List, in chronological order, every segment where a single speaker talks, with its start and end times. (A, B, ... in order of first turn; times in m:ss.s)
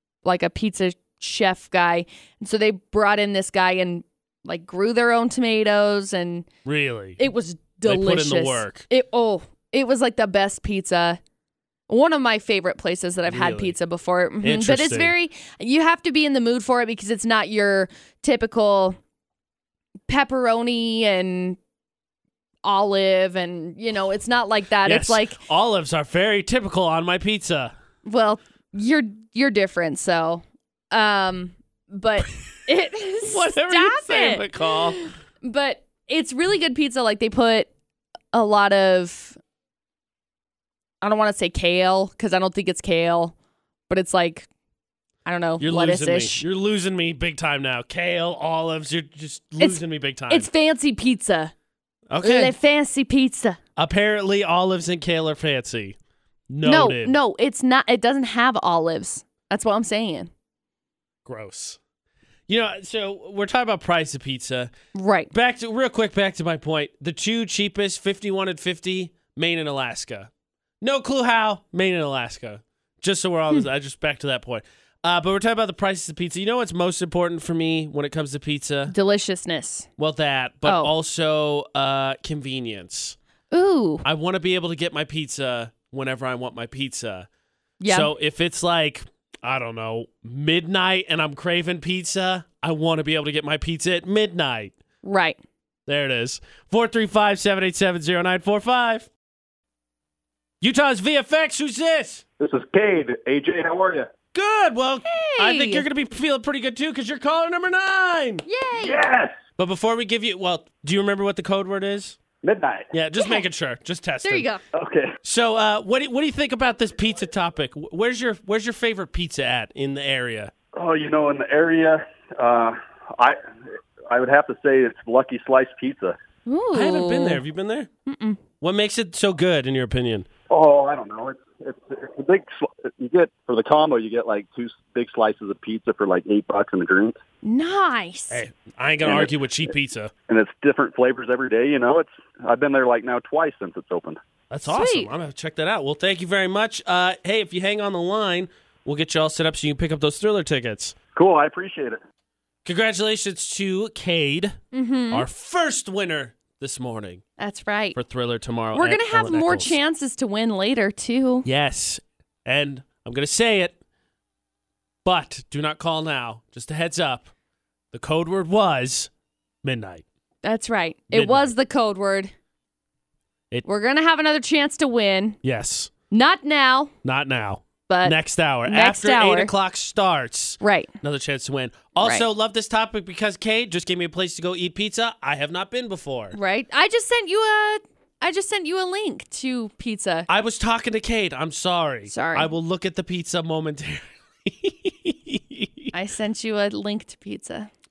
0:00.2-0:06.5 A
0:06.6-0:07.2 B
0:07.2-0:11.2 A
0:07.8-0:08.8 B
0:11.9-0:19.0 A
0:13.3-0:13.8 B
0:14.4-0:15.1 B
0:20.1-0:21.6 A
0:22.6-0:25.4 A
0:24.8-0:27.7 B
0:28.0-0:37.7 A
0:33.2-0:35.0 B
0:38.3-0:39.4 A
0:41.0-0:43.3 A
0:43.9-0:44.5 A
0:45.2-0:46.4 A
0:45.6-0:50.5 B
0:49.6-0:51.5 A
0:52.1-0:52.5 B
0:52.2-0:53.6 A
0:53.8-0:56.0 B
0:56.5-0:57.2 B
0:56.6-1:00.3 A
1:01.3-1:01.8 B
1:02.5-1:04.7 B
1:04.9-1:05.3 A
1:05.3-1:10.3 B
1:10.8-1:18.9 B
1:18.9-1:19.9 A
1:20.0-1:23.2 B
1:20.6-1:20.9 A
1:23.5-1:24.0 A
1:24.0-1:27.3 B
1:27.8-1:28.1 A
1:27.9-1:34.8 B
1:35.0-1:35.4 A
1:35.9-1:39.1 B
1:40.6-1:42.2 B
1:42.4-1:44.1 C
1:44.3-1:48.4 B
1:45.0-1:45.9 A
1:48.4-1:49.0 A
1:48.8-1:49.4 C
1:49.6-1:52.2 B
1:52.4-1:52.9 C
1:52.9-1:54.5 B
1:54.2-1:54.6 A
1:54.8-1:55.1 C
1:55.2-2:00.5 B
2:00.7-2:03.4 C
2:04.1-2:06.2 C
2:06.5-2:07.4 A
2:06.7-2:07.9 B
2:08.1-2:08.4 A
2:08.6-2:10.3 B
2:10.5-2:17.2 C
2:17.4-2:18.4 A
2:18.3-2:20.1 B
2:20.3-2:24.2 C
2:24.5-2:31.0 B
2:24.7-2:25.1 A
2:31.2-2:32.0 C
2:32.6-2:34.6 B
2:34.7-2:35.3 A
2:35.1-2:37.2 B
2:37.4-2:38.0 A
2:38.0-2:39.8 B
2:38.7-2:41.5 A
2:41.4-2:43.8 B
2:45.0-2:47.3 B
2:47.9-2:49.1 B
2:49.6-2:50.0 B
2:50.4-2:52.3 A
2:51.1-2:51.5 B
2:53.6-2:55.4 A
2:55.4-2:55.9 B
2:56.1-2:56.9 A
2:57.0-3:06.4 B
2:57.9-2:58.2 A
2:58.7-2:59.5 A
3:00.6-3:00.9 A
3:02.0-3:02.2 A
3:06.3-3:10.3 A
3:10.3-3:15.9 B
3:12.1-3:12.5 A
3:15.9-3:17.7 A